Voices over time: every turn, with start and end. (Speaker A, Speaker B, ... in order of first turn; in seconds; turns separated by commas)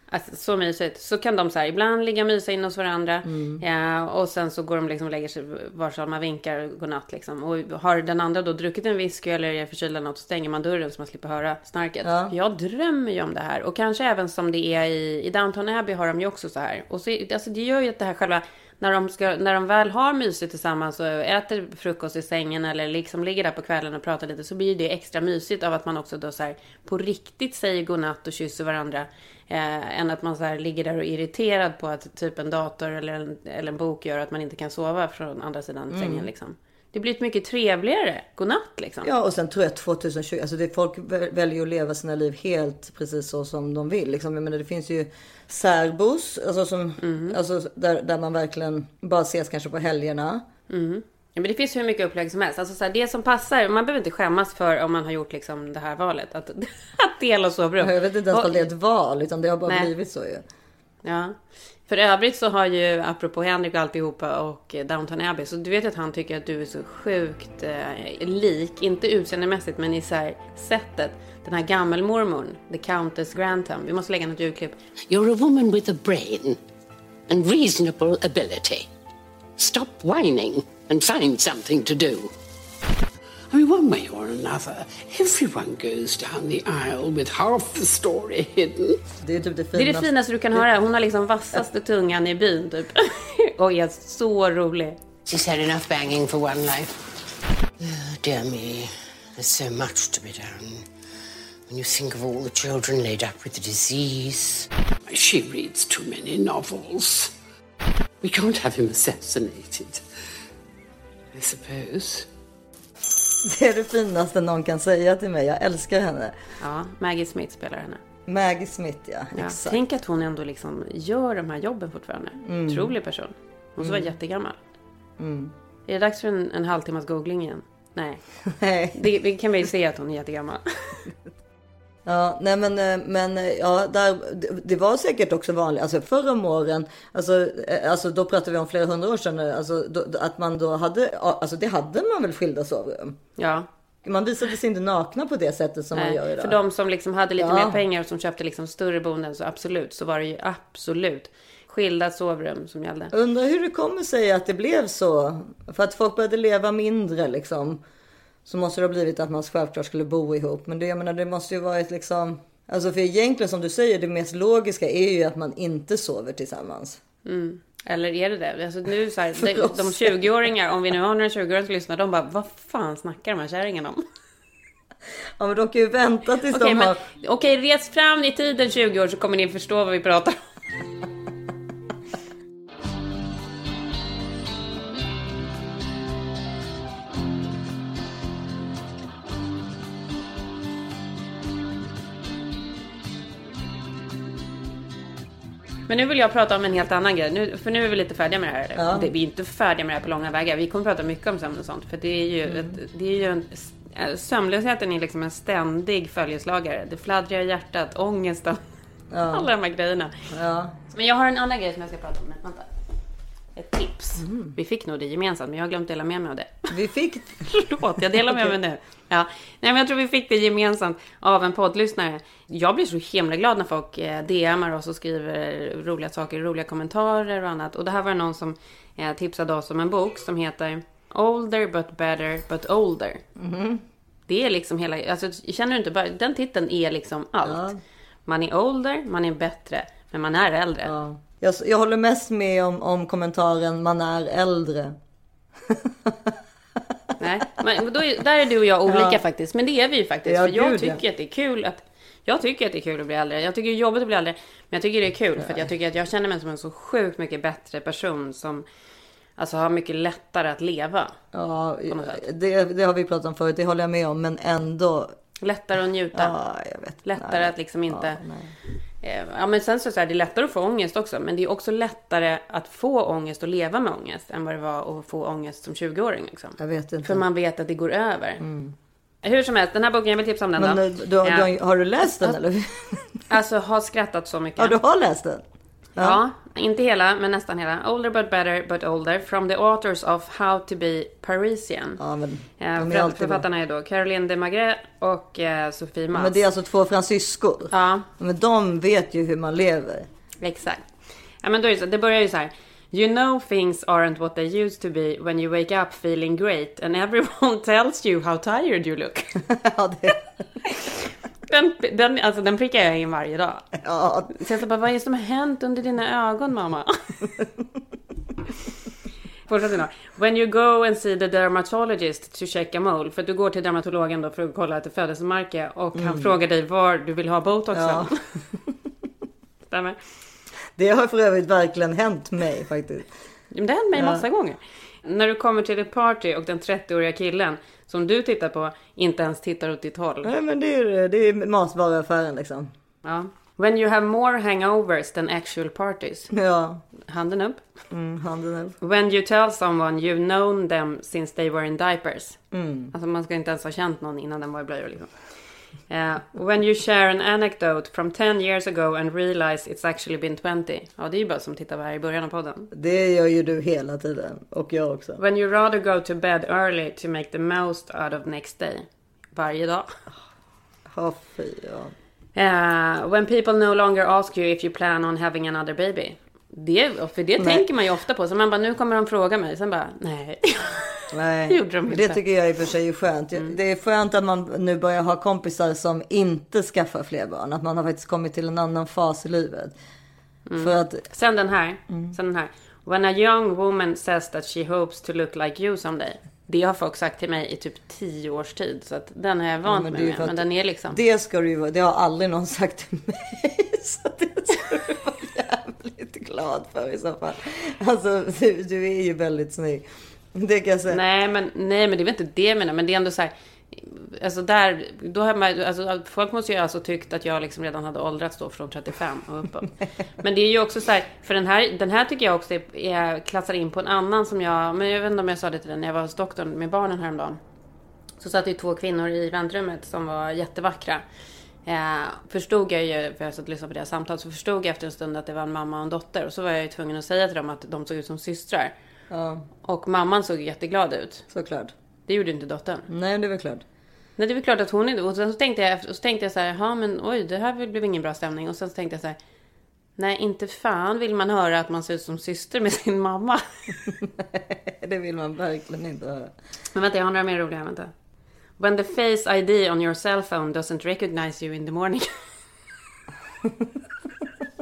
Speaker A: 0.1-39.1, Speaker B: 3.2-3.6, Speaker B: 12.0-12.3, Speaker B: 35.9-36.3, Speaker B: 39.0-50.4, Speaker A: 47.0-47.4, Speaker A: 50.7-58.7, Speaker B: 57.8-60.4, Speaker A: 61.0-74.8, Speaker C: 75.1-76.6, Speaker C: 77.3-78.9, Speaker C: 79.6-82.3, Speaker C: 83.5-89.0, Speaker B: 89.2-90.6, Speaker A: 89.7-95.0, Speaker C: 95.2-97.0, Speaker C: 97.8-100.8, Speaker C: 101.7-107.3, Speaker C: 108.2-110.0, Speaker C: 111.3-112.2, Speaker B: 113.4-116.3, Speaker A: 116.6-118.0, Speaker B: 118.2-119.8, Speaker A: 119.3-124.6, Speaker B: 122.4-122.9, Speaker B: 123.8-124.1, Speaker B: 125.2-125.5, Speaker A: 125.9-128.2, Speaker B: 128.5-129.1, Speaker A: 128.9-130.9, Speaker B: 132.0-143.2, Speaker A: 143.4-143.7, Speaker B: 144.0-146.6, Speaker A: 145.9-153.1, Speaker B: 147.4-147.8, Speaker B: 153.1-157.8, Speaker B: 158.4-167.0, Speaker A: 167.2-174.0, Speaker B: 169.4-170.2, Speaker B: 175.4-177.0, Speaker A: 176.5-180.4, Speaker A: 195.9-208.6, Speaker B: 198.8-199.1, Speaker B: 202.4-202.8, Speaker B: 209.1-209.5, Speaker A: 209.3-210.1, Speaker B: 210.3-210.8, Speaker A: 210.9-212.7, Speaker A: 213.5-216.7, Speaker B: 214.2-214.6, Speaker B: 216.7-217.5, Speaker A: 217.5-233.2, Speaker B: 218.1-218.5, Speaker B: 233.4-233.8, Speaker A: 234.3-237.7, Speaker B: 237.4-237.8, Speaker A: 238.2-240.9, Speaker B: 240.8-245.0, Speaker B: 245.7-246.3, Speaker A: 247.2-258.6, Speaker B: 248.8-249.2, Speaker B: 250.2-251.0, Speaker B: 255.4-255.7, Speaker A: 259.4-261.2, Speaker B: 261.3-265.1, Speaker A: 261.9-262.2, Speaker A: 265.4-266.4, Speaker B: 266.1-268.5, Speaker A: 267.0-268.2, Speaker A: 269.0-278.4, Speaker B: 276.6-277.2, Speaker B: 278.4-278.7, Speaker A: 279.2-281.5, Speaker B: 280.6-283.2, Speaker A: 283.3-284.8, Speaker B: 284.6-285.4, Speaker A: 286.0-292.0, Speaker B: 292.0-293.4, Speaker A: 292.6-296.4, Speaker B: 296.1-300.1, Speaker A: 297.7-298.1, Speaker A: 300.4-300.9, Speaker A: 301.4-309.4, Speaker B: 309.5-310.2, Speaker A: 310.6-310.9, Speaker A: 311.5-313.7, Speaker B: 313.7-314.4, Speaker A: 314.3-316.9, Speaker A: 319.5-328.1, Speaker B: 325.9-326.3, Speaker B: 327.7-328.1, Speaker A: 329.7-330.0, Speaker B: 330.8-333.1, Speaker A: 333.5-340.3, Speaker B: 333.9-334.2, Speaker B: 340.2-342.7, Speaker A: 343.0-346.3, Speaker B: 346.3-346.8, Speaker A: 347.0-347.6, Speaker B: 347.9-348.8, Speaker A: 348.8-352.4, Speaker B: 352.5-352.9, Speaker A: 352.9-355.1, Speaker A: 355.9-362.7, Speaker B: 362.7-365.2, Speaker A: 365.2-369.9, Speaker B: 370.9-371.9, Speaker A: 372.4-382.2, Speaker B: 377.4-377.6, Speaker B: 381.1-389.7, Speaker A: 390.5-401.0, Speaker B: 390.6-391.1, Speaker B: 391.9-392.1, Speaker B: 399.6-411.0, Speaker A: 410.9-427.4, Speaker A: 428.2-431.0, Speaker A: 431.6-438.7, Speaker B: 439.1-439.4, Speaker A: 439.6-441.2, Speaker B: 441.3-441.7, Speaker A: 442.1-442.9, Speaker B: 442.9-443.6, Speaker A: 444.2-449.2, Speaker A: 450.0-453.4, Speaker B: 454.2-456.3, Speaker A: 456.7-457.9, Speaker A: 458.6-462.1